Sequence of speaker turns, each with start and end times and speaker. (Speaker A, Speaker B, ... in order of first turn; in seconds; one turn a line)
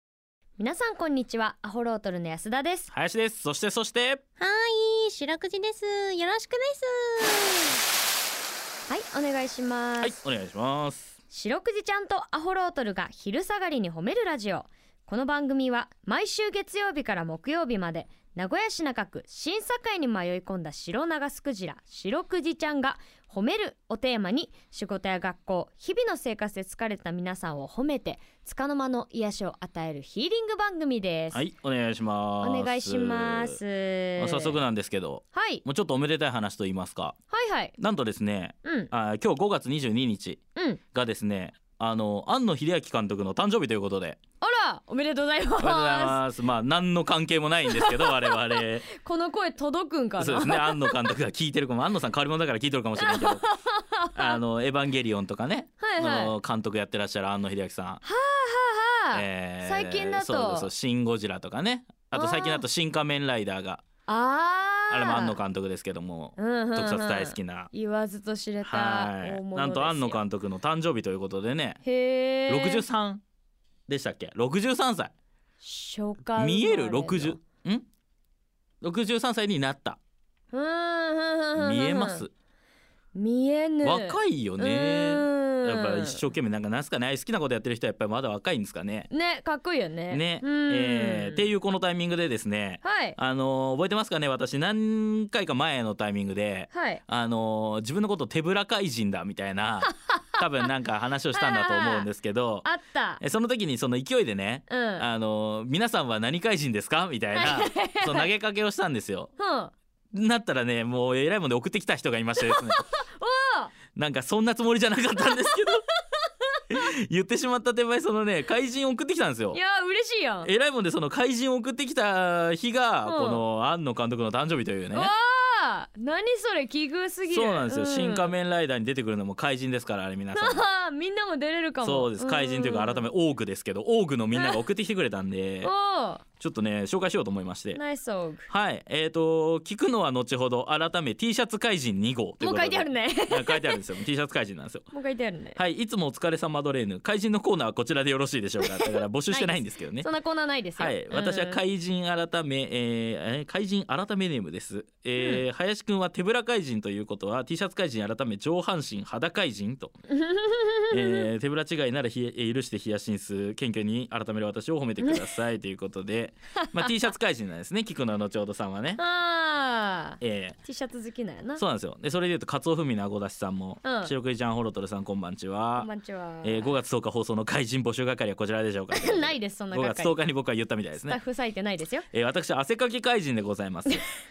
Speaker A: 0.6-2.9
Speaker B: 2.9-4.2
Speaker C: 4.4-7.8
Speaker A: 8.9-10.2
Speaker B: 10.0-11.1
Speaker A: 11.3-31.4
Speaker B: 31.3-33.6
Speaker A: 32.4-34.6
Speaker B: 34.2-37.1
Speaker A: 35.3-35.6
Speaker A: 37.3-37.7
Speaker B: 37.8-40.4
Speaker A: 38.6-38.9
Speaker B: 40.9-44.2
Speaker A: 44.4-46.2
Speaker B: 45.6-48.9
Speaker A: 47.7-51.1
Speaker B: 50.2-53.5
Speaker A: 53.0-54.4
Speaker B: 54.1-58.0
Speaker A: 55.8-56.3
Speaker A: 58.0-60.7
Speaker B: 59.1-63.8
Speaker A: 62.1-62.6
Speaker A: 64.1-65.4
Speaker B: 64.9-67.7
Speaker A: 66.4-70.2
Speaker B: 68.6-71.8
Speaker A: 71.8-72.8
Speaker B: 72.5-73.2
Speaker B: 73.9-75.1
Speaker A: 75.6-77.4
Speaker B: 76.4-77.8
Speaker B: 78.8-80.0
Speaker A: 80.5-82.2
Speaker B: 81.5-82.3
Speaker A: 83.1-86.2
Speaker B: 83.8-89.1
Speaker A: 89.1-91.5
Speaker B: 90.1-102.7
Speaker A: 92.8-93.2
Speaker A: 96.7-97.0
Speaker A: 99.8-100.4
Speaker A: 101.3-102.1
Speaker A: 102.6-103.2
Speaker B: 103.2-109.3
Speaker A: 104.7-105.0
Speaker A: 107.3-108.3
Speaker A: 109.4-109.7
Speaker B: 110.1-112.8
Speaker A: 112.4-113.7
Speaker B: 113.9-115.8
Speaker A: 115.2-115.8
Speaker B: 116.7-119.6
Speaker A: 119.5-120.5
Speaker B: 120.4-125.1
Speaker A: 123.0-123.4
Speaker A: 124.9-128.3
Speaker B: 127.3-130.6
Speaker A: 130.3-133.1
Speaker B: 131.8-135.7
Speaker A: 134.3-134.6
Speaker A: 135.6-136.2
Speaker B: 136.4-137.8
Speaker A: 137.7-138.5
Speaker B: 138.5-144.9
Speaker A: 142.4-143.8
Speaker A: 144.9-145.6
Speaker B: 145.6-150.1
Speaker A: 148.6-151.6
Speaker B: 150.8-159.9
Speaker A: 155.2-155.4
Speaker A: 160.1-161.3
Speaker B: 160.9-169.0
Speaker A: 166.6-166.9
Speaker A: 169.0-171.6
Speaker B: 170.2-170.6
Speaker B: 171.6-175.9
Speaker A: 173.8-174.1
Speaker A: 175.8-176.8
Speaker B: 176.4-181.2
Speaker A: 178.9-180.2
Speaker A: 181.1-182.1
Speaker B: 182.1-184.0